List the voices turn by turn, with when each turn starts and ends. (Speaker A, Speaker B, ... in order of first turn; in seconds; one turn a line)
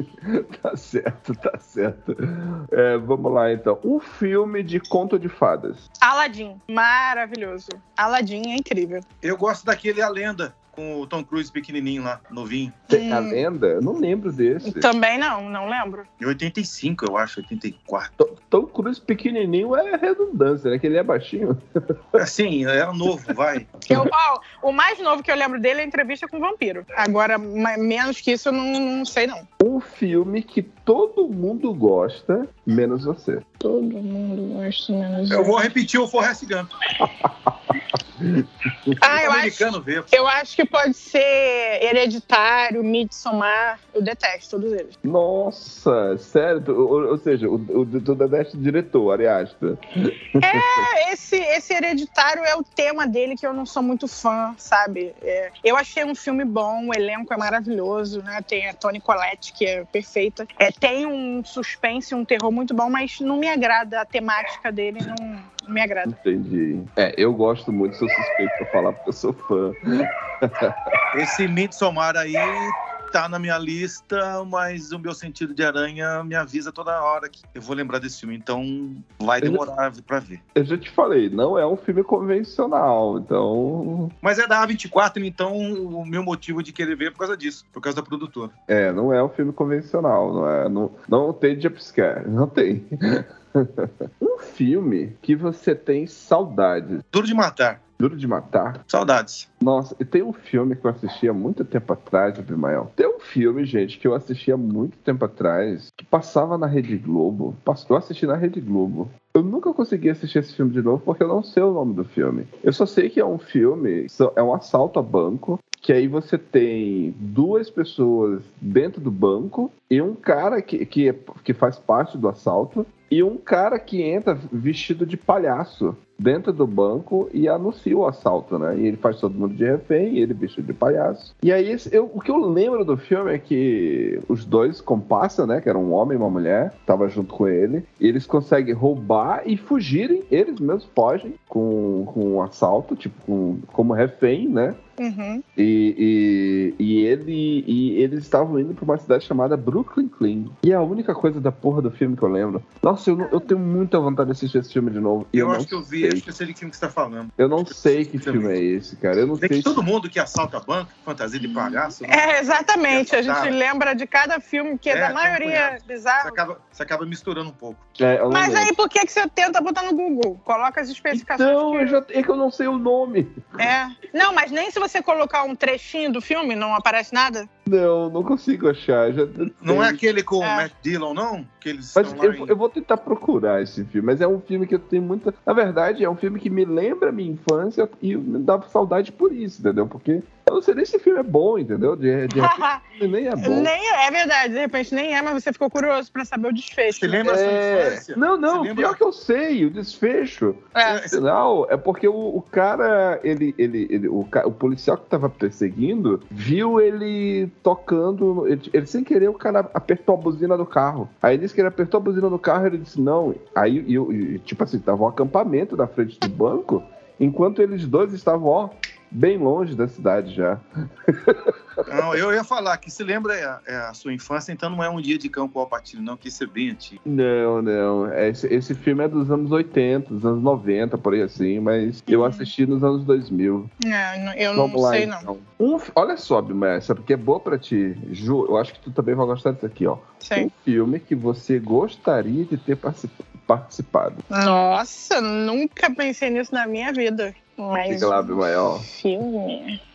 Speaker A: 0.2-5.8
Speaker B: 6.0-9.0
Speaker C: 9.2-12.8
Speaker B: 12.9-13.4
Speaker A: 12.9-14.9
Speaker B: 14.6-16.1
Speaker C: 16.2-18.1
Speaker A: 18.2-22.2
Speaker C: 22.1-23.7
Speaker B: 23.9-29.4
Speaker A: 29.6-33.4
Speaker B: 33.6-35.5
Speaker C: 35.3-36.7
Speaker A: 37.0-39.0
Speaker B: 39.0-44.9
Speaker C: 39.1-40.1
Speaker A: 45.0-50.9
Speaker B: 50.4-66.2
Speaker A: 66.0-71.0
Speaker C: 71.1-80.4
Speaker A: 80.5-84.1
Speaker C: 84.2-88.5
Speaker A: 88.7-97.0
Speaker C: 97.1-97.8
Speaker A: 98.0-98.8
Speaker C: 98.9-99.5
Speaker A: 99.6-144.8
Speaker B: 145.0-145.4
Speaker A: 145.6-156.2
Speaker C: 155.3-158.6
Speaker A: 157.4-159.8
Speaker C: 159.4-163.6
Speaker B: 161.4-166.4
Speaker C: 164.9-167.8
Speaker A: 168.0-168.7
Speaker B: 168.3-172.0
Speaker A: 171.1-173.4
Speaker B: 173.6-177.5
Speaker A: 177.7-180.0
Speaker C: 179.6-182.5
Speaker B: 180.4-180.7
Speaker A: 181.9-193.7
Speaker B: 192.3-192.8
Speaker B: 193.4-197.2
Speaker C: 196.9-199.0
Speaker A: 197.2-221.8
Speaker B: 200.7-201.0
Speaker C: 200.8-201.2
Speaker C: 221.8-227.0
Speaker A: 227.0-233.7
Speaker B: 232.1-232.5
Speaker B: 233.8-235.3
Speaker A: 234.5-244.2
Speaker B: 240.2-240.5
Speaker B: 244.3-249.8
Speaker A: 247.9-248.8